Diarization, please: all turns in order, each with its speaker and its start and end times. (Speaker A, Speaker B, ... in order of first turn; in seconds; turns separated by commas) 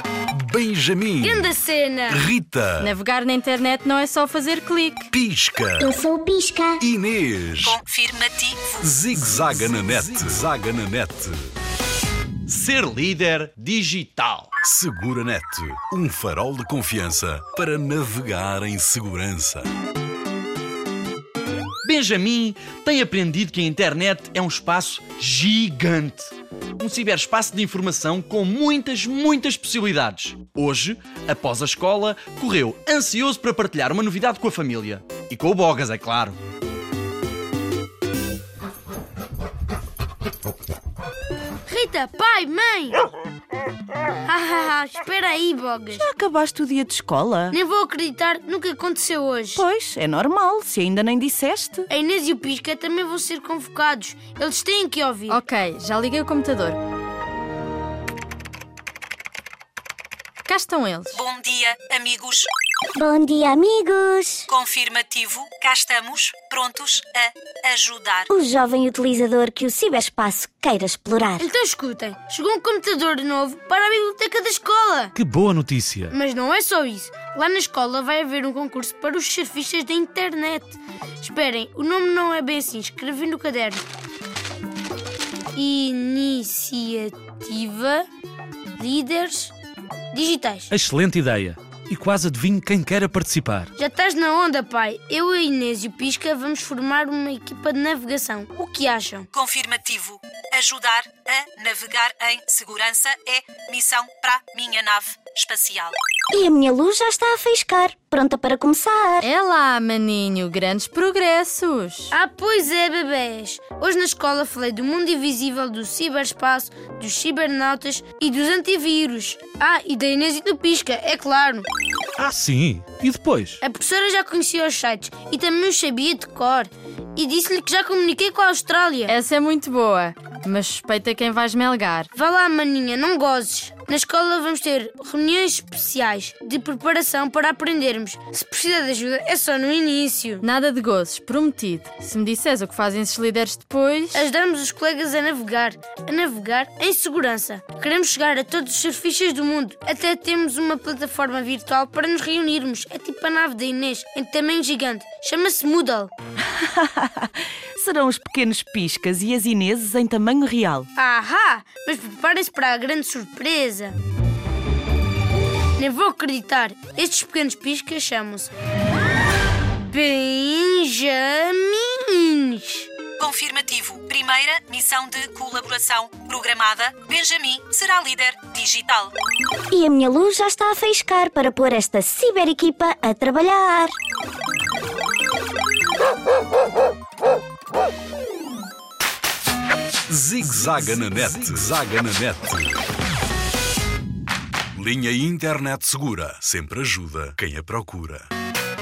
Speaker A: 0.3-1.5, Speaker B: 1.2-2.2, Speaker A: 2.1-2.9, Speaker C: 2.8-5.1, Speaker A: 5.1-6.0, Speaker D: 5.8-6.8, Speaker A: 6.8-7.8, Speaker E: 7.6-8.7, Speaker A: 8.8-11.4, Speaker F: 12.5-14.5, Speaker A: 14.6-19.7, Speaker F: 21.8-36.4, Speaker B: 41.7-43.0, Speaker B: 44.2-46.0, Speaker G: 45.9-47.5, Speaker B: 47.5-49.6, Speaker G: 49.5-51.9, Speaker B: 51.9-55.4, Speaker C: 55.3-56.8, Speaker C: 60.5-61.2, Speaker E: 61.1-62.5, Speaker D: 62.9-64.5, Speaker E: 64.5-68.3, Speaker D: 68.3-71.5, Speaker B: 71.4-75.1, Speaker H: 75.2-76.1, Speaker B: 76.1-83.8, Speaker B: 85.5-88.1, Speaker B: 88.8-89.5, Speaker B: 90.1-90.7, Speaker H: 90.7-93.7, Speaker B: 93.8-99.3, Speaker E: 99.3-105.9, Speaker D: 106.3-109.3, Speaker C: 109.2-112.1, Speaker B: 112.1-121.7, Speaker H: 122.2-123.5, Speaker B: 123.6-129.1, Speaker C: 129.1-132.1, Speaker B: 132.1-140.4, Speaker C: 140.4-144.2, Speaker B: 144.1-156.1, Speaker G: 156.5-160.9, Speaker B: 160.9-163.9, Speaker B: 165.8-168.5, Speaker B: 169.8-172.9, Speaker E: 173.2-179.1, Speaker D: 179.7-183.9, Speaker A: 190.1-192.8, Speaker A: 194.7-198.3